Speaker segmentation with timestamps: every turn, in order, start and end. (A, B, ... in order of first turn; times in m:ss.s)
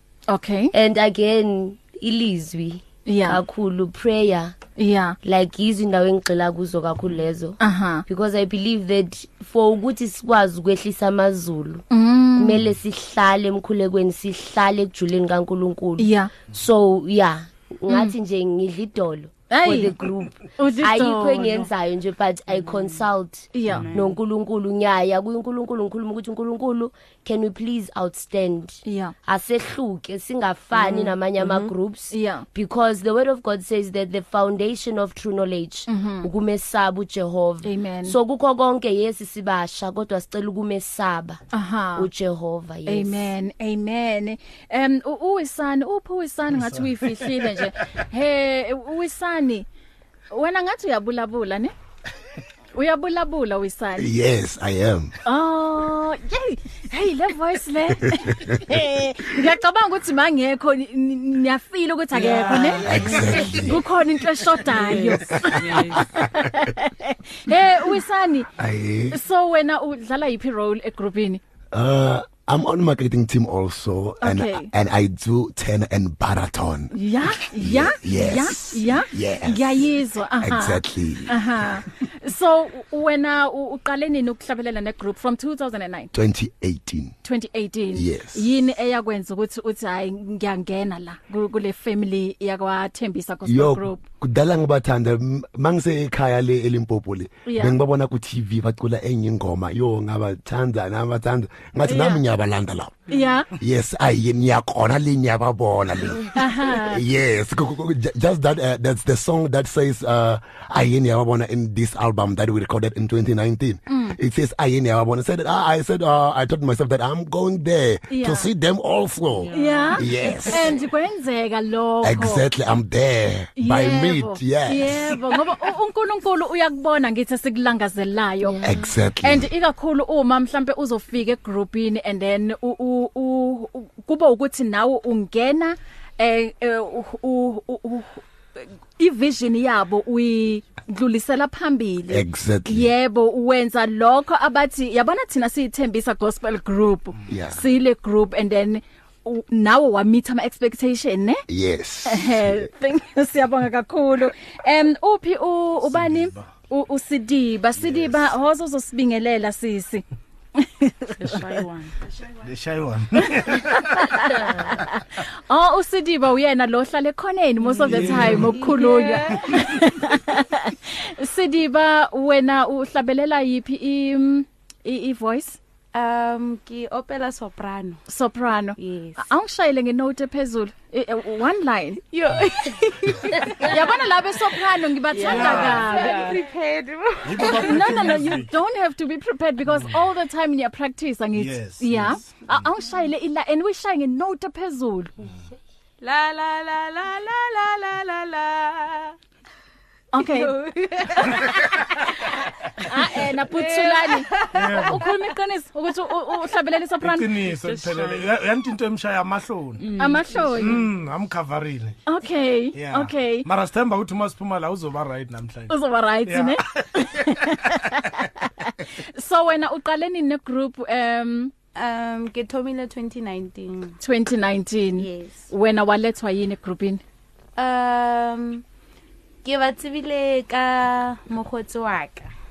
0:00.3-0:00.7 A
0:00.7-0:04.6 B
0:03.1-0:03.4 A
0:04.8-0:05.2 A
0:05.2-0:11.8 B
0:07.6-0:08.0 A
0:11.9-0:12.6 A
0:12.4-0:41.4 B
0:16.0-0:16.3 A
0:17.9-0:18.1 A
0:19.5-0:20.0 A
0:20.6-0:21.7 A
0:23.5-0:23.9 A
0:23.7-0:24.1 C
0:28.9-0:29.2 A
0:30.8-0:32.4 A
0:35.9-0:36.3 A
0:37.6-0:38.2 A
0:41.5-0:42.1 A
0:42.0-0:43.3 B
0:42.9-0:49.7 A
0:50.3-0:51.7 A
0:52.8-0:54.1 A
0:54.0-0:55.1 D
0:55.2-1:08.5 A
0:58.1-0:58.7 D
1:02.1-1:03.6 C
1:02.8-1:03.8 D
1:04.6-1:06.0 C
1:05.3-1:06.3 D
1:08.6-1:09.2 D
1:09.1-1:11.4 A
1:11.7-1:19.9 D
1:14.2-1:14.7 A
1:16.9-1:26.1 A
1:20.4-1:21.8 D
1:26.1-1:27.2 D
1:27.2-1:34.0 A
1:28.0-1:28.4 D
1:33.5-1:43.0 D
1:37.5-1:37.8 A
1:41.9-1:42.2 A
1:43.1-1:43.5 A
1:43.6-2:00.8 D
1:46.4-1:47.0 A
1:53.9-1:54.2 A
1:58.1-1:58.5 A
1:59.5-2:00.5 C
1:59.5-2:02.5 A
2:02.0-2:05.4 D
2:03.6-2:08.6 A
2:08.4-2:08.9 B
2:08.6-2:09.5 D
2:09.2-2:18.2 A
2:19.0-2:31.4 A
2:22.1-2:22.9 D
2:27.3-2:27.6 D
2:31.5-2:32.7 D
2:32.1-2:40.0 A
2:35.9-2:36.5 E
2:37.8-2:38.3 E
2:40.6-2:41.4 A
2:41.2-2:41.9 C
2:42.4-2:44.4 E
2:43.4-2:44.8 A
2:45.5-2:55.6 A
2:47.6-2:49.6 F
2:48.0-2:48.4 C
2:55.9-2:58.0 F
2:58.1-3:02.0 A
2:58.8-2:59.3 F
3:02.1-3:07.9 F
3:03.4-3:06.3 A
3:05.3-3:05.8 E
3:07.2-3:08.5 E
3:07.4-3:15.1 A
3:09.7-3:10.0 E
3:11.4-3:12.6 E
3:16.0-3:19.2 F
3:20.1-3:20.6 A
3:20.2-3:22.2 F
3:22.8-3:27.5 A
3:23.0-3:25.1 F
3:24.5-3:25.0 E
3:27.0-3:29.9 E
3:27.6-3:28.3 C
3:29.8-3:30.4 C
3:30.0-3:30.8 A
3:30.6-3:32.0 E
3:32.1-3:33.5 A
3:32.7-3:38.1 E
3:35.7-3:41.5 A
3:41.8-3:44.0 F
3:44.0-3:47.0 A
3:45.0-3:45.5 F
3:47.6-3:48.6 F
3:49.4-3:52.3 F